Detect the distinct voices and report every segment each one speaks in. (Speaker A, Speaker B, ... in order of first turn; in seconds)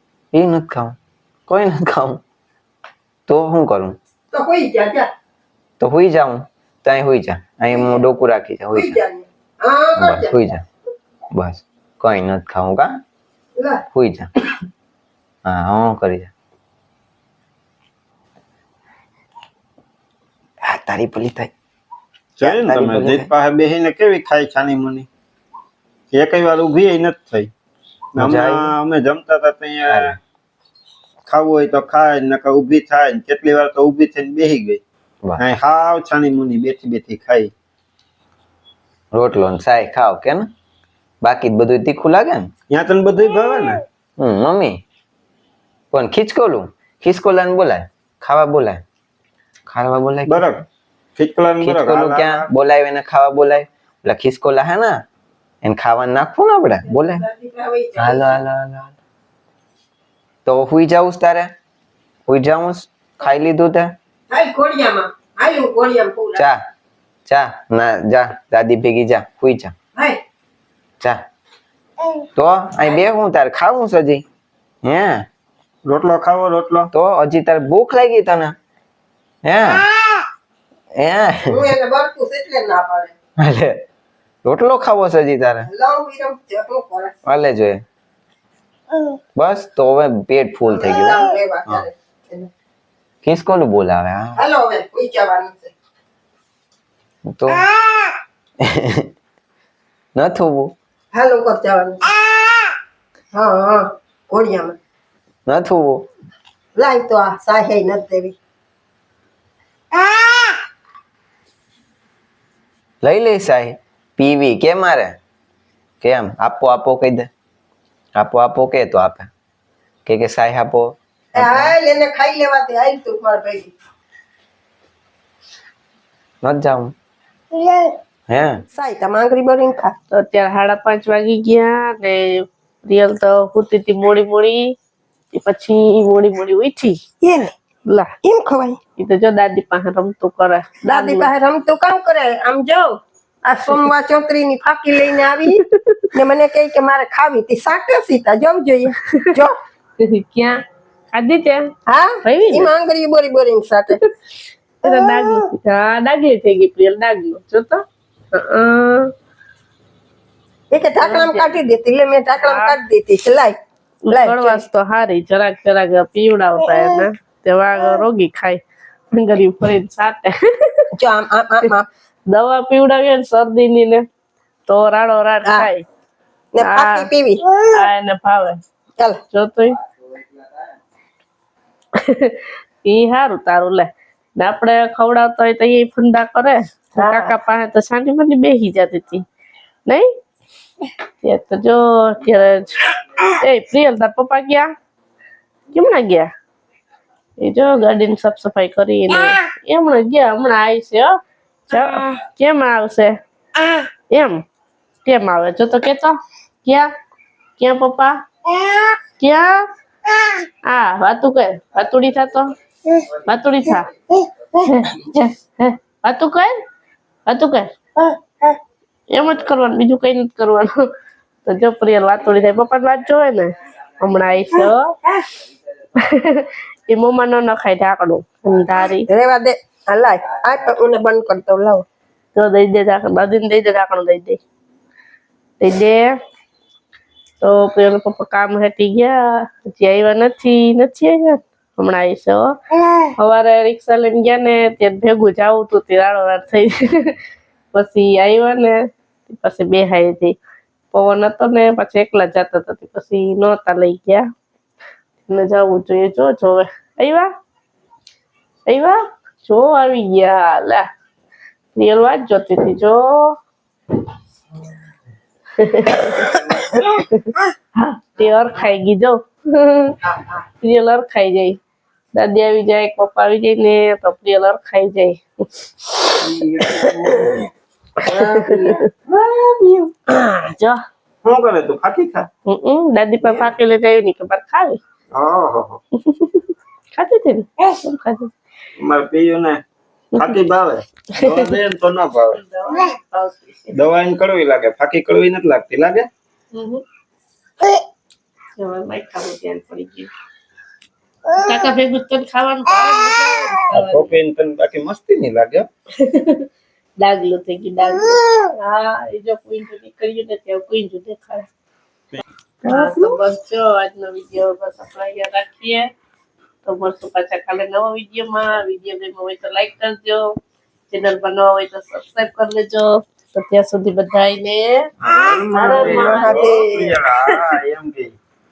Speaker A: 0.3-1.0, 1.5-2.2, 3.3-4.0, 5.8-9.0, 10.0-10.7, 11.3-12.9, 13.9-14.3, 15.4-16.3, 20.6-21.5, 22.4-23.3, 28.2-28.7, 29.9-30.2, 39.1-40.5, 41.2-42.5, 44.2-44.8, 45.9-48.8, 49.7-50.5, 51.6-55.0, 55.6-57.2, 58.0-58.9, 60.5-61.5, 62.3-64.0, 67.3-69.7, 72.4-74.2, 74.8-75.3, 76.9-78.5, 79.5-79.8, 81.0-81.7, 83.4-83.8, 84.5-85.7, 87.3-87.8, 89.4-91.8, 93.2-94.4, 97.3-97.7, 98.6-99.1, 100.2-100.8, 105.5-106.1, 113.0-115.2, 116.0-117.3, 118.2-119.3, 120.1-121.8, 126.4-126.9, 128.3-128.6
Speaker B: 4.3-5.1, 7.7-8.1, 8.7-10.3, 13.6-13.8, 56.9-58.4, 64.3-66.5, 81.5-83.1, 85.7-87.2, 90.7-92.5, 94.4-95.7, 101.1-102.0, 103.3-104.8, 106.8-108.4, 110.1-110.5, 121.3-123.7, 127.6-127.9, 128.7-129.9, 137.2-137.5, 138.2-138.8, 140.8-145.6, 146.1-149.6, 151.9-154.0, 154.8-155.4, 160.7-163.6, 164.1-164.6, 171.0-171.9, 176.5-177.7, 187.0-187.3, 229.1-231.8, 312.7-313.1, 325.1-327.0
Speaker C: 22.4-25.1, 26.1-27.5, 28.1-30.1, 31.3-34.8, 35.4-37.5, 42.7-43.8, 50.3-50.6, 51.2-52.5, 75.9-76.9, 276.2-277.5, 278.0-279.9, 281.2-282.3, 283.2-283.5, 285.1-285.8, 288.8-289.6, 290.1-292.4, 293.7-296.1, 303.7-305.7, 325.0-328.1
Speaker D: 130.1-134.7, 135.3-137.0, 137.9-138.1, 139.0-141.3, 145.8-146.1, 150.0-150.6, 151.1-151.7, 152.2-152.7, 154.8-157.8, 158.3-159.1, 161.0-161.6, 162.4-162.8, 164.1-168.6, 169.1-170.9, 172.3-174.0, 174.7-175.8, 176.6-177.1, 177.7-178.6, 179.3-179.8, 182.0-189.2, 191.2-194.7, 195.7-196.3, 197.4-201.1, 201.7-203.2, 204.1-204.4, 205.1-206.9, 207.6-208.2, 209.2-209.6, 210.7-212.5, 213.2-213.9, 214.6-216.5, 217.3-217.7, 219.1-220.7, 221.4-224.9, 226.0-229.1, 232.3-234.4, 235.6-236.1, 237.4-242.5, 243.2-247.2, 247.7-250.4, 250.9-254.3, 255.3-257.3, 258.7-260.9, 261.8-263.4, 265.6-270.0, 270.6-271.6, 272.1-276.1, 278.5-278.8, 280.1-280.8, 282.5-284.8, 286.0-288.3, 291.2-291.5, 292.4-293.7, 296.5-296.8, 298.6-300.1, 301.3-304.1, 306.0-306.5, 307.0-311.5, 312.6-315.9, 316.6-320.3, 320.9-324.9, 325.5-326.7